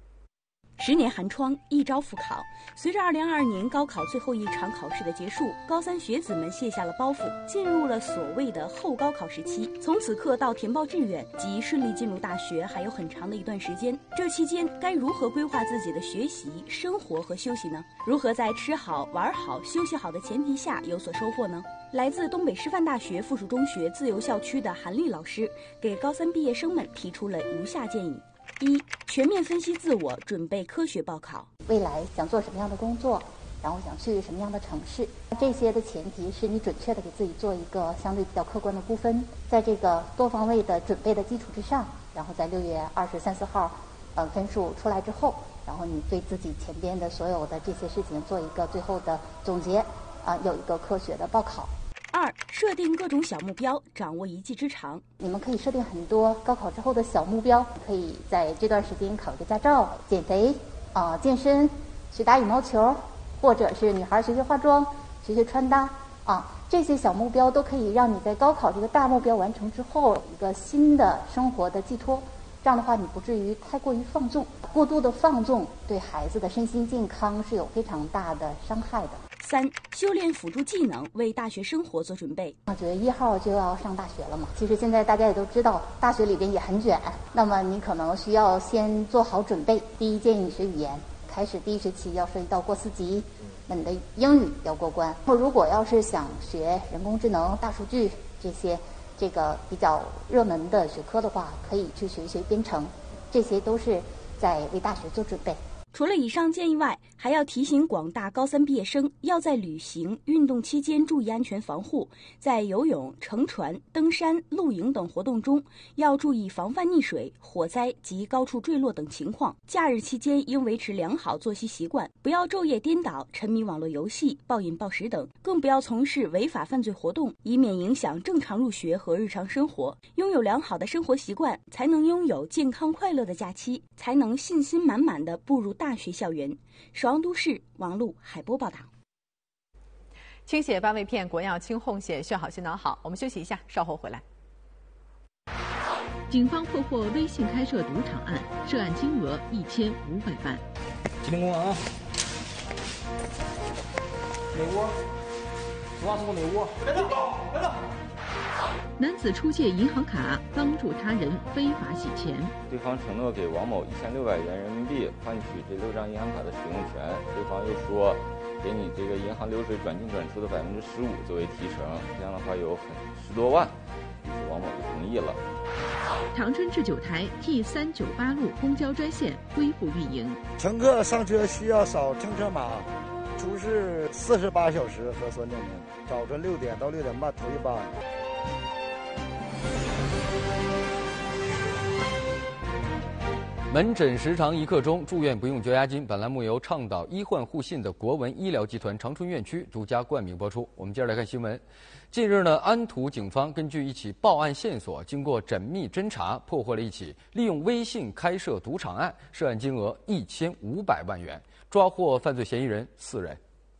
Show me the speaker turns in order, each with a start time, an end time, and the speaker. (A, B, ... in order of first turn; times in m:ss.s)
0:00.8-0:31.5 A
0:31.7-0:51.7 B
0:52.1-0:55.0 A
0:55.2-1:19.2 B
1:19.4-1:22.6 A
1:22.7-1:45.6 B
1:45.9-2:18.9 A
2:20.5-2:24.2 C
2:26.3-2:27.0 C
2:27.0-2:30.5 D
2:28.4-2:28.8 C
2:29.4-2:30.5 C
2:31.2-2:31.8 E
2:34.5-2:35.0 E
2:36.0-2:37.1 E
2:39.0-2:42.4 D
2:42.6-2:55.4 F
2:56.4-3:00.4 D
3:00.6-3:07.9 G
3:13.7-3:33.4 H